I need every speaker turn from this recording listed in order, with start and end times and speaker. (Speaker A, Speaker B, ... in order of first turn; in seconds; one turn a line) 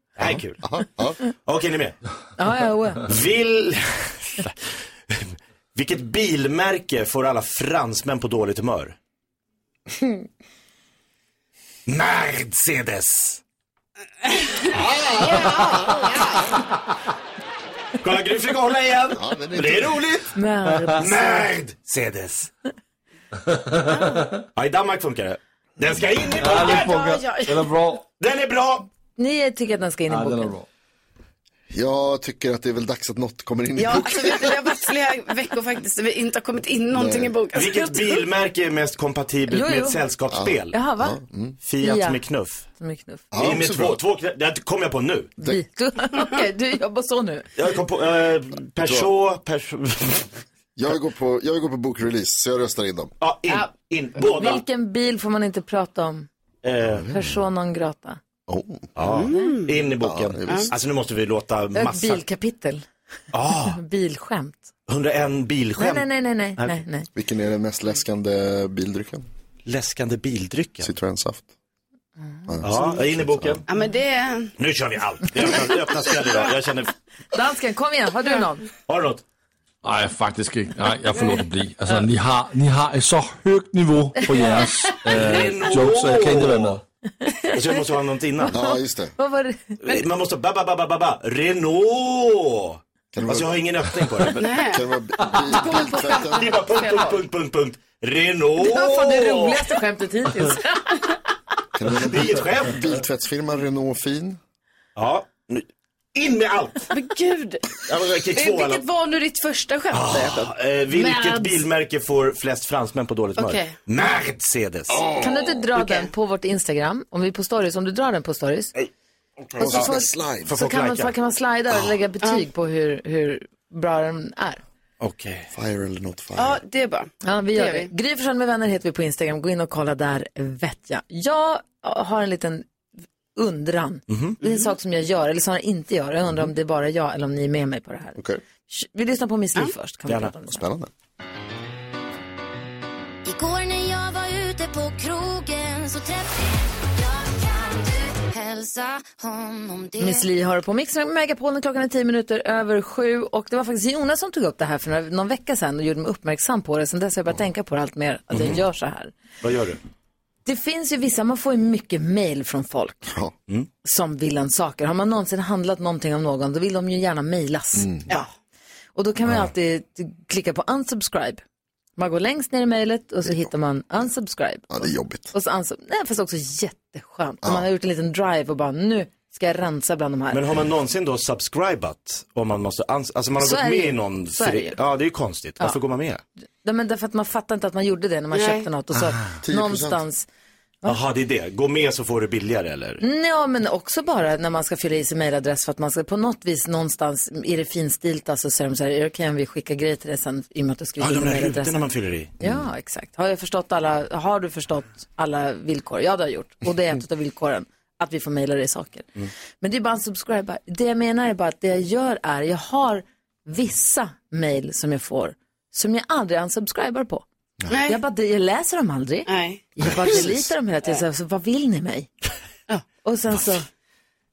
Speaker A: 0.2-0.6
Speaker B: 0.2-1.2
Speaker A: 1.4-2.0
Speaker C: 2.4-3.0
Speaker A: 3.1-4.6
Speaker A: 5.1-9.0
Speaker A: 11.9-13.4
Speaker A: 14.9-16.0
Speaker D: 15.4-16.2
Speaker A: 18.0-20.4
Speaker B: 19.1-20.1
Speaker C: 20.4-21.5
Speaker A: 20.9-22.5
Speaker D: 23.9-24.2
Speaker A: 24.5-27.1
Speaker E: 26.4-28.0
Speaker D: 26.5-27.7
Speaker A: 28.2-28.9
Speaker C: 29.2-30.5
Speaker E: 30.1-30.7
Speaker B: 31.7-34.6
Speaker D: 33.8-38.2
Speaker B: 36.9-37.3
Speaker A: 37.5-40.8
Speaker C: 39.5-40.0
Speaker B: 40.3-41.6
Speaker C: 40.7-41.2
Speaker A: 41.6-42.7
Speaker C: 41.8-42.2
Speaker C: 42.7-43.3
Speaker B: 43.3-44.0
Speaker A: 43.4-45.3
Speaker C: 45.4-47.5
Speaker A: 47.6-50.4
Speaker B: 48.8-49.1
Speaker B: 50.8-53.1
Speaker A: 53.2-54.6
Speaker C: 54.2-56.3
Speaker A: 56.6-57.0
Speaker B: 56.8-57.4
Speaker C: 57.1-58.2
Speaker B: 58.5-58.9
Speaker A: 59.0-62.2
Speaker D: 59.0-59.9
Speaker B: 60.0-60.7
Speaker D: 60.5-60.7
Speaker C: 61.8-62.9
Speaker A: 63.3-63.8
Speaker C: 63.7-64.7
Speaker A: 64.9-66.8
Speaker C: 65.8-67.1
Speaker B: 67.2-69.3
Speaker A: 69.7-70.9
Speaker B: 70.8-71.5
Speaker B: 72.5-73.6
Speaker A: 72.6-73.7
Speaker D: 73.7-74.5
Speaker A: 74.6-76.9
Speaker C: 77.3-78.7
Speaker A: 78.9-79.2
Speaker E: 79.8-86.8
Speaker A: 85.1-86.8
Speaker A: 87.5-88.5
Speaker B: 88.5-89.2
Speaker C: 88.5-90.0
Speaker A: 89.8-94.5
Speaker B: 93.1-96.5
Speaker D: 94.4-94.8
Speaker D: 95.6-97.1
Speaker A: 96.0-99.7
Speaker C: 98.6-101.0
Speaker B: 101.8-104.4
Speaker A: 101.9-102.8
Speaker A: 105.0-106.9
Speaker D: 106.9-107.7
Speaker A: 107.9-108.8
Speaker D: 108.3-111.4
Speaker A: 109.9-115.1
Speaker D: 113.4-113.8
Speaker B: 114.9-115.6
Speaker C: 115.2-118.7
Speaker D: 115.8-116.1
Speaker B: 119.6-120.5
Speaker C: 119.6-124.6
Speaker A: 119.6-119.9
Speaker A: 120.5-121.1
Speaker A: 125.0-125.5
Speaker B: 125.5-126.6
Speaker D: 126.4-127.9
Speaker C: 127.2-132.7
Speaker C: 133.3-138.2
Speaker A: 134.1-134.4
Speaker B: 138.2-138.4
Speaker C: 138.7-140.6
Speaker A: 140.1-140.3
Speaker B: 140.5-140.9
Speaker F: 143.2-150.3
Speaker C: 150.0-159.1
Speaker A: 158.3-158.6
Speaker A: 159.4-159.8
Speaker C: 160.5-163.1
Speaker B: 163.1-163.3
Speaker C: 163.8-168.3
Speaker B: 167.8-168.1
Speaker C: 168.9-171.4
Speaker C: 172.0-180.4
Speaker B: 174.7-175.3
Speaker A: 180.3-186.2
Speaker C: 183.4-184.8
Speaker C: 186.6-190.3
Speaker D: 188.3-188.7
Speaker B: 189.4-190.0
Speaker A: 190.8-193.0
Speaker C: 193.0-201.8
Speaker A: 201.0-202.3
Speaker C: 202.4-209.1
Speaker B: 202.4-202.7
Speaker C: 209.6-217.2
Speaker D: 217.7-218.0
Speaker C: 217.9-222.1
Speaker D: 219.3-219.7
Speaker B: 219.8-220.5
Speaker C: 223.0-223.7